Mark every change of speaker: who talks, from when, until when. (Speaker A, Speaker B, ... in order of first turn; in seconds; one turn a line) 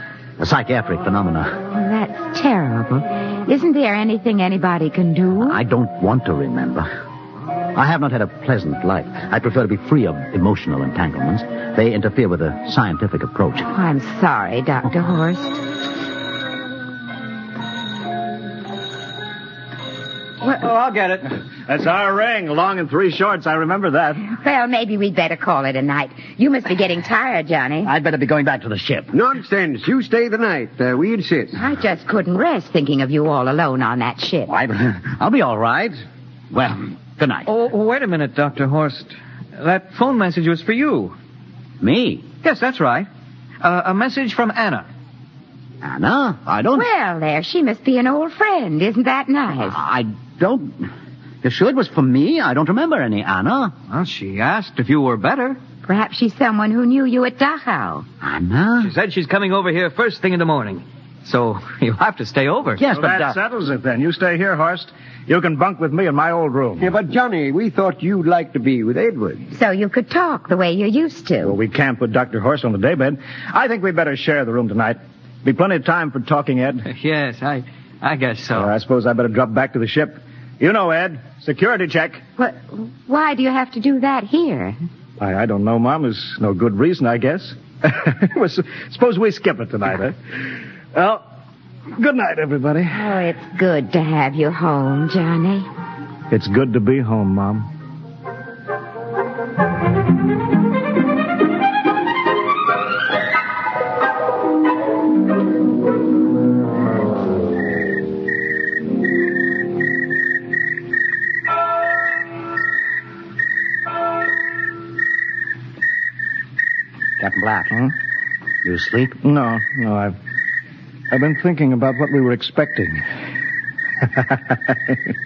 Speaker A: 0.4-1.6
Speaker B: 1.7-5.6
Speaker A: 5.4-6.9
Speaker A: 7.7-13.7
Speaker B: 13.6-15.6
Speaker C: 20.6-21.1
Speaker C: 21.7-24.2
Speaker B: 24.3-27.9
Speaker A: 27.8-29.1
Speaker D: 29.1-31.6
Speaker B: 31.5-34.5
Speaker A: 34.5-37.5
Speaker E: 37.5-41.1
Speaker A: 41.8-42.3
Speaker E: 42.4-43.1
Speaker E: 43.6-44.9
Speaker A: 45.8-46.9
Speaker B: 46.7-49.8
Speaker A: 49.6-50.9
Speaker A: 51.4-53.7
Speaker E: 53.9-55.6
Speaker B: 55.8-58.1
Speaker A: 58.2-58.9
Speaker E: 58.8-62.9
Speaker A: 62.8-63.4
Speaker C: 62.9-66.9
Speaker D: 66.8-69.5
Speaker B: 69.5-71.5
Speaker C: 71.4-76.8
Speaker E: 76.9-78.7
Speaker C: 78.5-82.2
Speaker B: 82.4-84.8
Speaker C: 85.2-90.2
Speaker C: 90.9-91.2
Speaker C: 92.0-93.0
Speaker B: 92.9-95.7
Speaker C: 96.3-97.7
Speaker A: 117.2-117.7
Speaker A: 118.6-119.2
Speaker C: 119.2-120.2
Speaker C: 121.1-123.0
Speaker C: 124.2-125.0